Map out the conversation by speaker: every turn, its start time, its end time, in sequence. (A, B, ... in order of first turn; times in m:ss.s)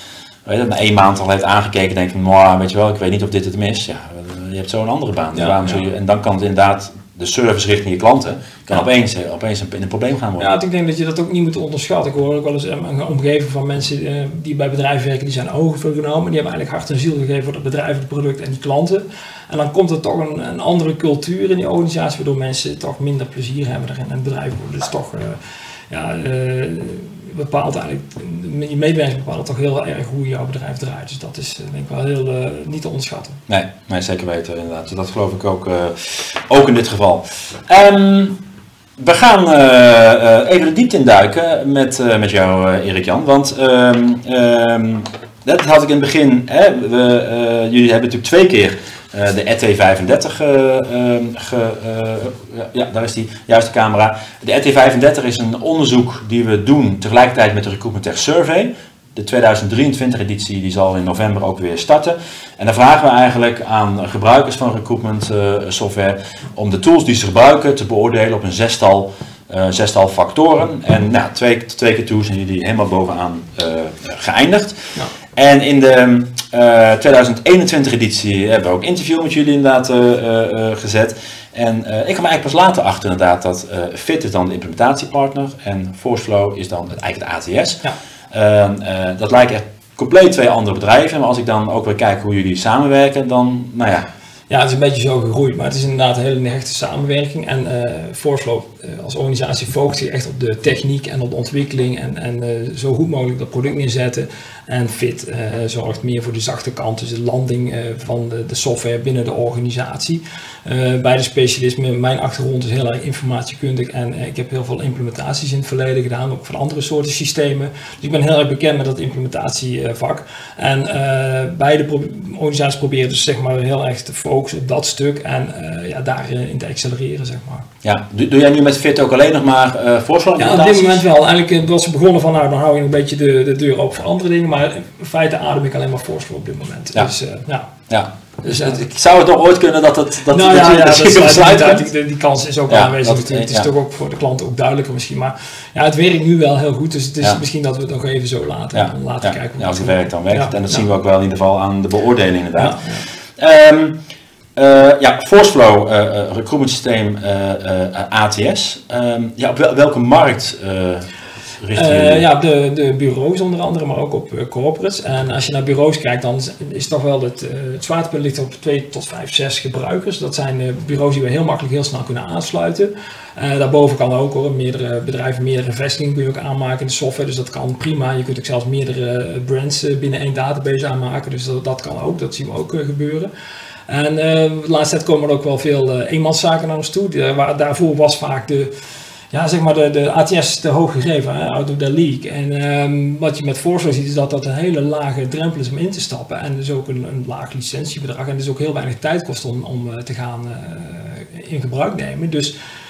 0:00.4-0:10.5 A
0:05.3-0:05.8 B
0:10.4-0:33.4 B
0:33.5-0:38.4 A
0:39.0-1:14.8 A
1:15.3-1:34.1 A
1:34.5-2:07.7 B
2:07.8-2:11.0 A
2:10.4-2:17.7 B
2:17.9-2:21.8 A
2:18.4-2:18.9 B
2:20.3-2:30.8 B
2:22.7-2:23.7 A
2:28.7-2:32.8 A
2:32.6-2:33.0 B
2:33.4-2:34.0 A
2:34.6-2:41.1 A
2:41.6-2:42.2 A
2:41.7-3:03.3 B
3:03.9-3:08.7 B
3:09.3-3:22.5 B